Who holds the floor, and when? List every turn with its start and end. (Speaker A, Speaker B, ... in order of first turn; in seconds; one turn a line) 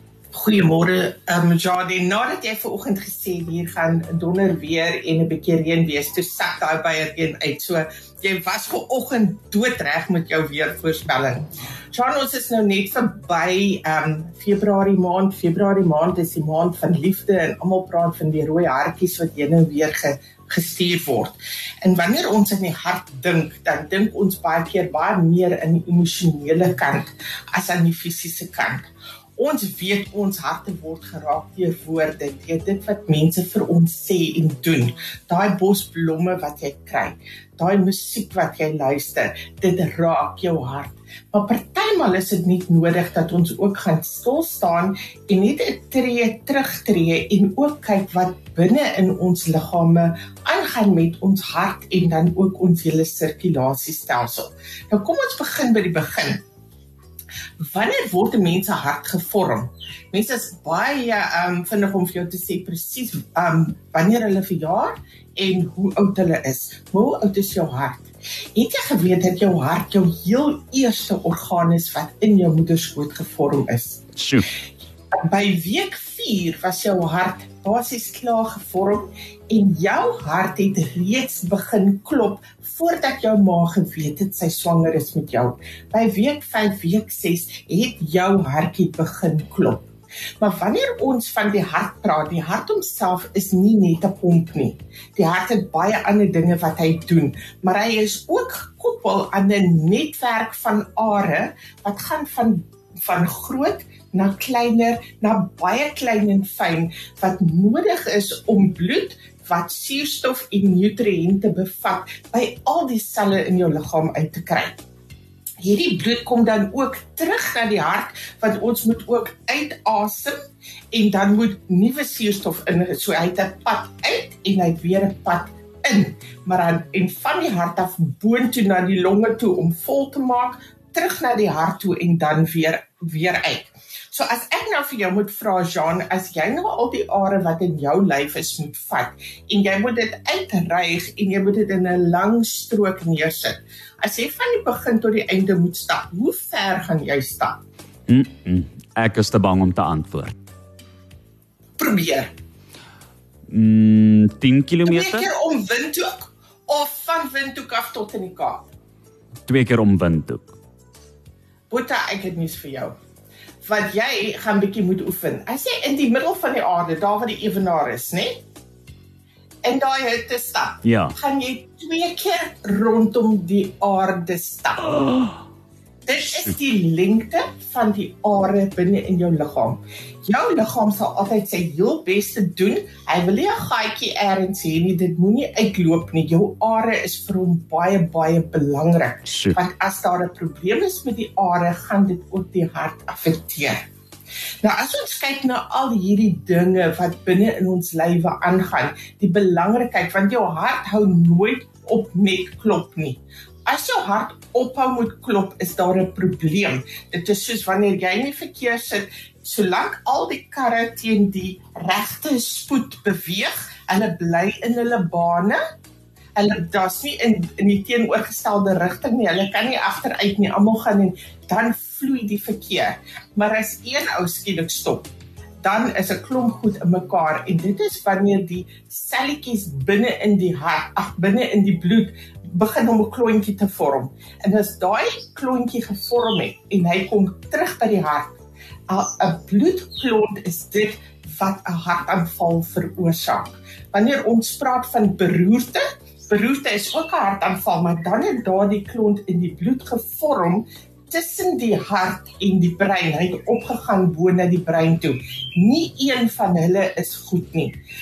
Speaker A: 0.3-56.4
Speaker A: 57.6-74.0
Speaker B: 74.2-74.5
Speaker A: 75.3-89.9
Speaker A: 90.4-114.8
Speaker A: 115.6-120.4
Speaker A: 120.9-147.6
Speaker B: 148.1-150.3
Speaker A: 151.8-152.3
Speaker B: 153.5-155.3
Speaker A: 154.8-158.7
Speaker B: 159.5-160.6
Speaker A: 161.7-162.9
Speaker A: 163.6-168.4
Speaker A: 169.6-175.3
Speaker B: 170.8-171.2
Speaker A: 176.1-193.8
Speaker B: 189.3-189.6
Speaker A: 194.6-215.6
Speaker A: 216.4-225.1
Speaker A: 225.6-238.4
Speaker A: 238.9-257.8